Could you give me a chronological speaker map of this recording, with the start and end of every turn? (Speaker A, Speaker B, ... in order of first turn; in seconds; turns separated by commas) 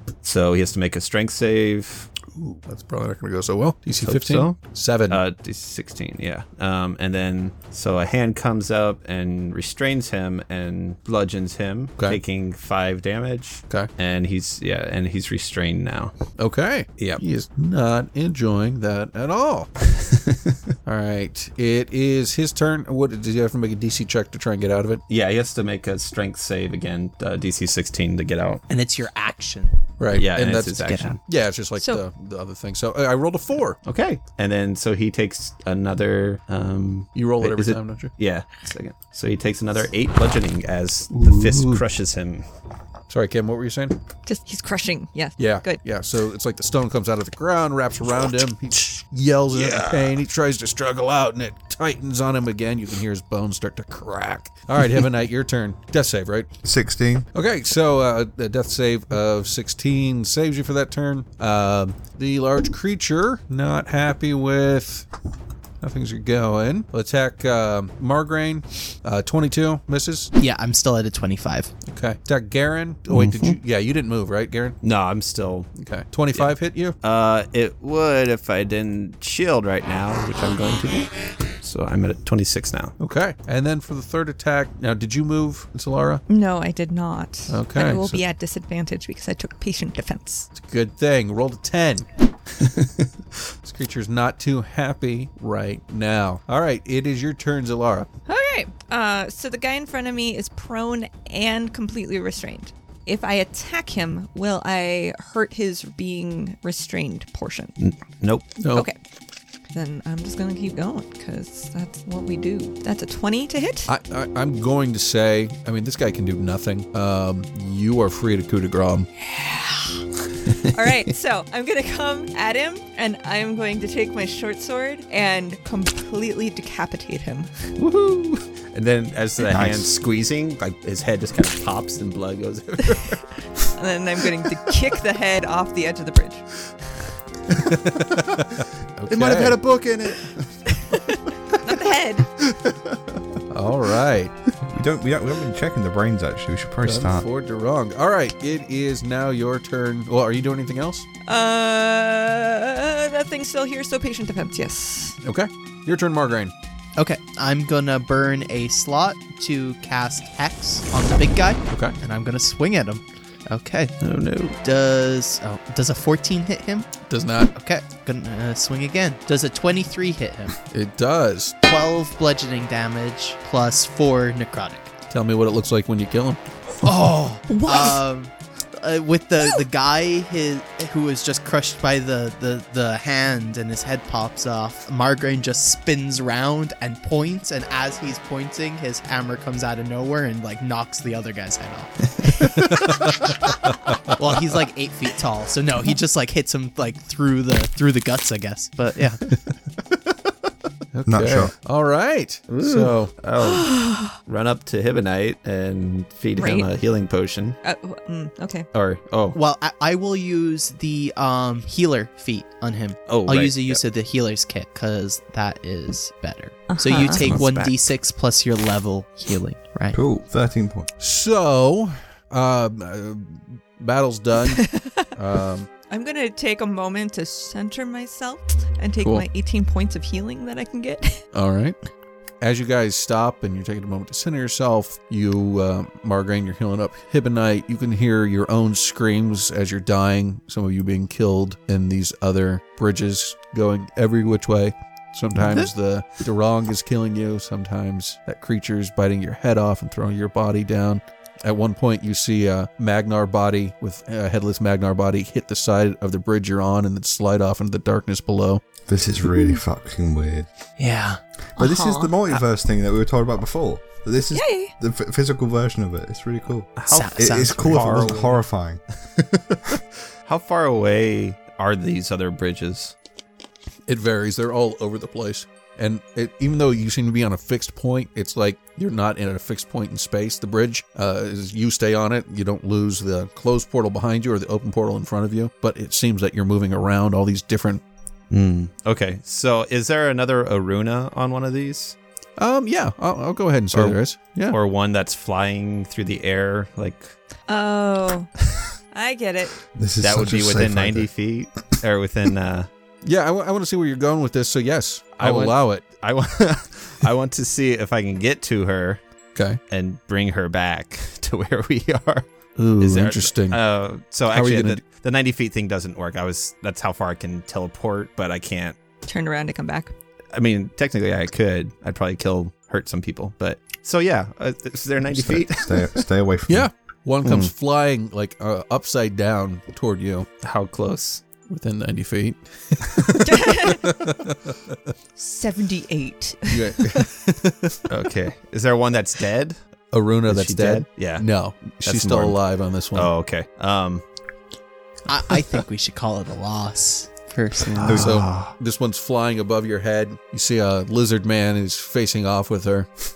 Speaker A: 0.2-2.1, Speaker B: 2.3-5.2, Speaker A: 4.0-4.6, Speaker A: 5.1-16.1, Speaker B: 16.4-19.7, Speaker A: 19.9-20.6, Speaker B: 20.9-25.0, Speaker A: 25.1-28.6, Speaker C: 28.7-29.8, Speaker B: 30.0-33.8, Speaker A: 30.1-31.2, Speaker C: 30.8-31.1, Speaker D: 31.8-32.0, Speaker A: 33.8-42.5, Speaker B: 37.1-38.1, Speaker B: 41.1-41.8, Speaker B: 43.1-44.0, Speaker D: 44.2-45.8, Speaker B: 45.4-56.5, Speaker A: 49.5-50.2, Speaker E: 56.6-57.3, Speaker B: 57.3-65.1, Speaker B: 65.8-70.3, Speaker C: 70.4-71.7, Speaker B: 71.8-74.8, Speaker A: 73.1-73.6, Speaker A: 74.8-75.7, Speaker B: 75.8-77.0, Speaker A: 76.3-82.9, Speaker B: 83.0-86.2, Speaker D: 86.3-90.5, Speaker B: 87.5-88.2, Speaker B: 90.5-92.1, Speaker B: 93.6-98.1, Speaker D: 98.3-107.7, Speaker A: 107.8-108.5, Speaker B: 108.6-108.9, Speaker D: 109.7-113.9, Speaker B: 113.9-119.1, Speaker D: 119.2-120.0, Speaker D: 120.7-127.7, Speaker A: 127.8-133.2, Speaker E: 129.5-129.9, Speaker D: 133.7-136.4, Speaker B: 137.5-139.6, Speaker A: 139.1-140.4, Speaker D: 140.8-142.3, Speaker B: 143.5-144.3, Speaker E: 144.7-147.3, Speaker B: 146.8-151.1, Speaker D: 151.2-155.2, Speaker B: 155.2-156.5, Speaker C: 157.0-163.9, Speaker B: 161.7-161.9, Speaker A: 164.0-164.6, Speaker C: 164.6-166.9, Speaker B: 167.1-167.5, Speaker C: 167.5-170.6, Speaker B: 170.7-171.5, Speaker C: 171.6-174.9, Speaker B: 175.1-176.8, Speaker C: 176.8-193.5, Speaker D: 177.5-178.0, Speaker B: 192.7-193.1, Speaker B: 193.9-194.1, Speaker C: 194.1-199.2, Speaker B: 200.9-203.1, Speaker E: 201.1-201.5, Speaker A: 202.5-207.6, Speaker D: 203.4-204.2, Speaker D: 206.3-206.7, Speaker D: 207.6-208.7, Speaker A: 208.7-209.4, Speaker C: 209.3-220.0, Speaker A: 213.1-213.8, Speaker D: 216.7-217.3, Speaker A: 217.0-217.8, Speaker E: 219.9-220.9, Speaker B: 221.0-225.7, Speaker D: 224.5-225.1, Speaker D: 225.9-231.2, Speaker B: 229.0-229.2, Speaker B: 231.3-231.8, Speaker B: 232.4-258.6, Speaker E: 258.9-260.5, Speaker C: 260.8-261.2, Speaker E: 261.6-268.8, Speaker D: 261.6-262.1, Speaker D: 264.3-264.7, Speaker A: 266.8-268.4, Speaker C: 266.9-268.2, Speaker A: 270.2-272.9, Speaker B: 273.9-287.8, Speaker A: 288.3-291.9, Speaker B: 292.4-294.6, Speaker A: 293.7-294.0, Speaker A: 294.5-297.1, Speaker D: 297.5-298.3, Speaker D: 298.9-299.6, Speaker E: 299.7-301.1, Speaker A: 300.0-302.7, Speaker B: 303.0-305.8, Speaker A: 305.2-309.0, Speaker B: 309.3-309.6, Speaker A: 309.7-318.8, Speaker B: 312.6-313.6, Speaker B: 314.3-314.8, Speaker D: 319.1-319.9, Speaker A: 320.3-326.0, Speaker E: 325.1-326.7, Speaker B: 326.5-330.3, Speaker A: 327.2-327.5, Speaker A: 330.4-331.2, Speaker B: 331.5-334.8, Speaker D: 333.2-333.9, Speaker D: 335.1-337.1, Speaker B: 336.5-337.8, Speaker A: 337.9-339.6, Speaker B: 339.9-343.1, Speaker A: 340.3-342.4, Speaker A: 342.9-344.0, Speaker C: 345.1-348.2, Speaker B: 347.8-352.9, Speaker A: 347.8-348.5, Speaker E: 347.8-348.2